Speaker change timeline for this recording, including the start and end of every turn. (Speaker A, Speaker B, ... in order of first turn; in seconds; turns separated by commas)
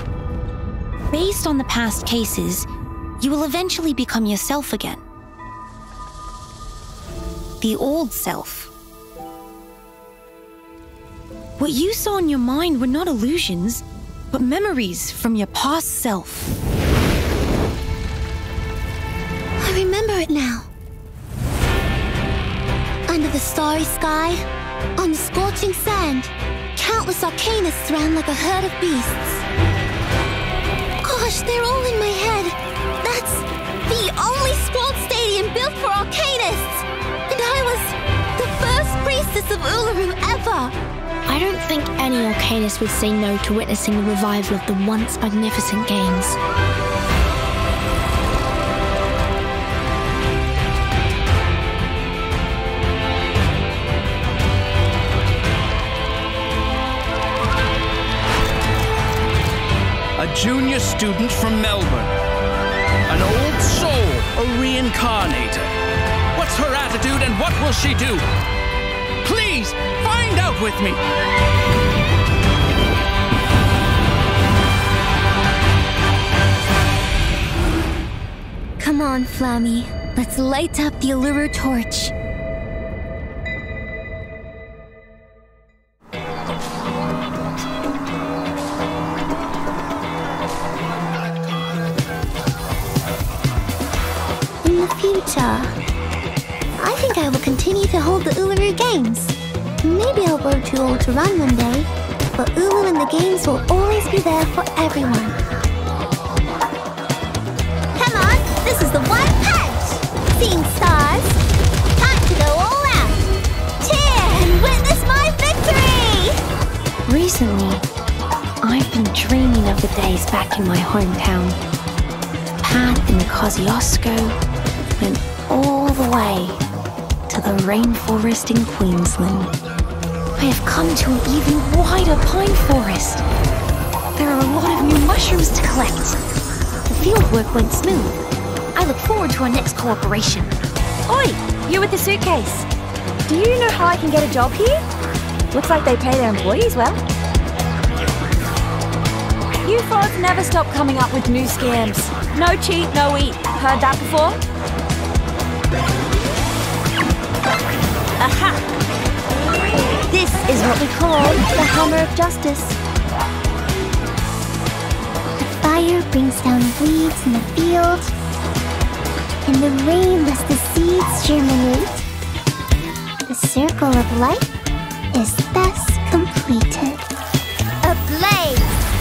Speaker A: 1.1-2.7, Speaker A: 3.2-5.0, Speaker A: 7.6-8.7, Speaker A: 11.6-16.5, Speaker B: 19.6-20.7, Speaker B: 23.1-24.4, Speaker B: 25.0-29.4, Speaker B: 31.0-40.7, Speaker C: 41.3-46.4, Speaker D: 60.2-62.1, Speaker D: 63.1-65.7, Speaker D: 66.3-68.2, Speaker D: 69.2-71.0, Speaker B: 78.8-82.1, Speaker B: 94.6-95.7, Speaker B: 96.8-105.4, Speaker B: 107.9-111.4, Speaker B: 111.9-116.4, Speaker A: 117.0-117.8, Speaker A: 118.6-121.6, Speaker A: 122.6-124.4, Speaker A: 125.0-126.6, Speaker A: 127.3-129.5, Speaker A: 130.3-133.2, Speaker A: 134.2-136.2, Speaker A: 136.9-138.2, Speaker A: 138.7-140.5, Speaker E: 141.1-142.7, Speaker E: 143.3-144.8, Speaker E: 145.5-147.0, Speaker E: 149.6-154.4, Speaker E: 158.2-158.6, Speaker E: 160.1-162.8, Speaker B: 165.4-168.1, Speaker B: 169.4-172.1, Speaker B: 173.3-174.5, Speaker B: 175.1-177.0, Speaker B: 177.8-178.8